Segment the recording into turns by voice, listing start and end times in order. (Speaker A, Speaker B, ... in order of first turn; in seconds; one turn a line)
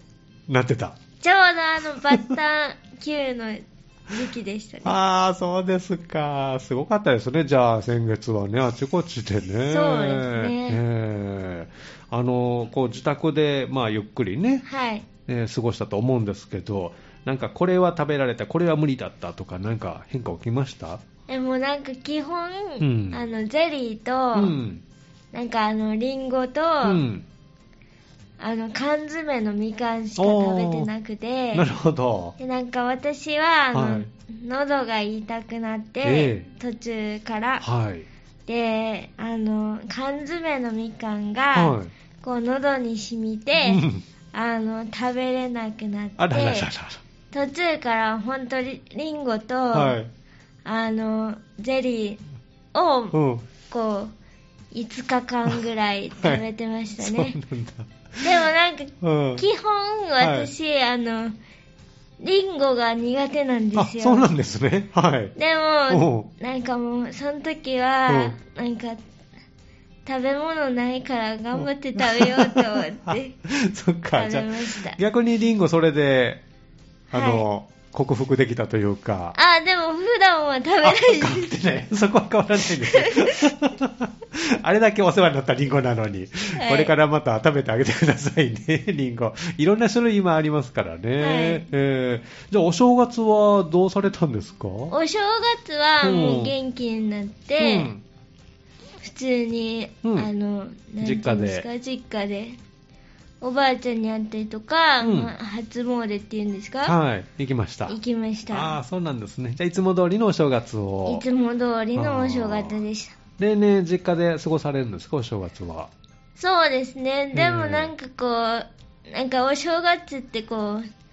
Speaker A: 0.5-1.0
Speaker B: 1.2-5.0
Speaker A: 4.8-14.7
Speaker B: 9.7-10.8
Speaker B: 14.7-15.1
Speaker A: 15.3-21.0
Speaker B: 21.3-24.6
Speaker A: 22.8-23.2
Speaker A: 24.3-24.8
Speaker B: 25.3-27.0
Speaker A: 26.8-27.2
Speaker B: 28.4-31.7
Speaker A: 30.2-30.9
Speaker A: 31.5-32.4
Speaker B: 32.4-37.6
Speaker A: 33.7-34.1
Speaker A: 36.0-36.5
Speaker A: 37.6-38.1
Speaker B: 38.5-46.7
Speaker A: 41.5-41.9
Speaker A: 43.6-44.0
Speaker A: 46.2-47.0
Speaker B: 47.3-50.0
Speaker A: 49.7-50.1
Speaker B: 50.6-52.2
Speaker B: 52.7-53.2
Speaker A: 53.1-53.5
Speaker B: 53.7-54.1
Speaker B: 54.7-57.4
Speaker A: 57.0-58.3
Speaker B: 58.2-61.4
Speaker A: 59.0-59.5
Speaker A: 60.2-60.5
Speaker B: 62.2-64.3
Speaker A: 63.8-65.3
Speaker B: 65.4-69.0
Speaker A: 65.9-66.3
Speaker A: 68.1-68.4
Speaker B: 70.0-73.3
Speaker A: 72.0-76.4
Speaker B: 74.2-75.0
Speaker B: 77.1-77.5
Speaker A: 77.1-79.4
Speaker B: 79.3-81.5
Speaker A: 80.8-95.0
Speaker B: 82.7-83.5
Speaker B: 86.6-86.9
Speaker B: 91.2-91.7
Speaker B: 94.9-97.9
Speaker A: 96.0-96.5
Speaker A: 97.6-98.0
Speaker B: 99.0-102.6
Speaker A: 100.0-100.3
Speaker A: 101.0-101.7
Speaker B: 103.4-107.0
Speaker A: 105.0-105.3
Speaker A: 106.8-108.0
Speaker B: 107.9-108.8
Speaker A: 108.5-111.2
Speaker B: 111.1-113.2
Speaker A: 112.0-112.8
Speaker A: 113.4-115.9
Speaker B: 116.4-120.9
Speaker A: 117.3-117.9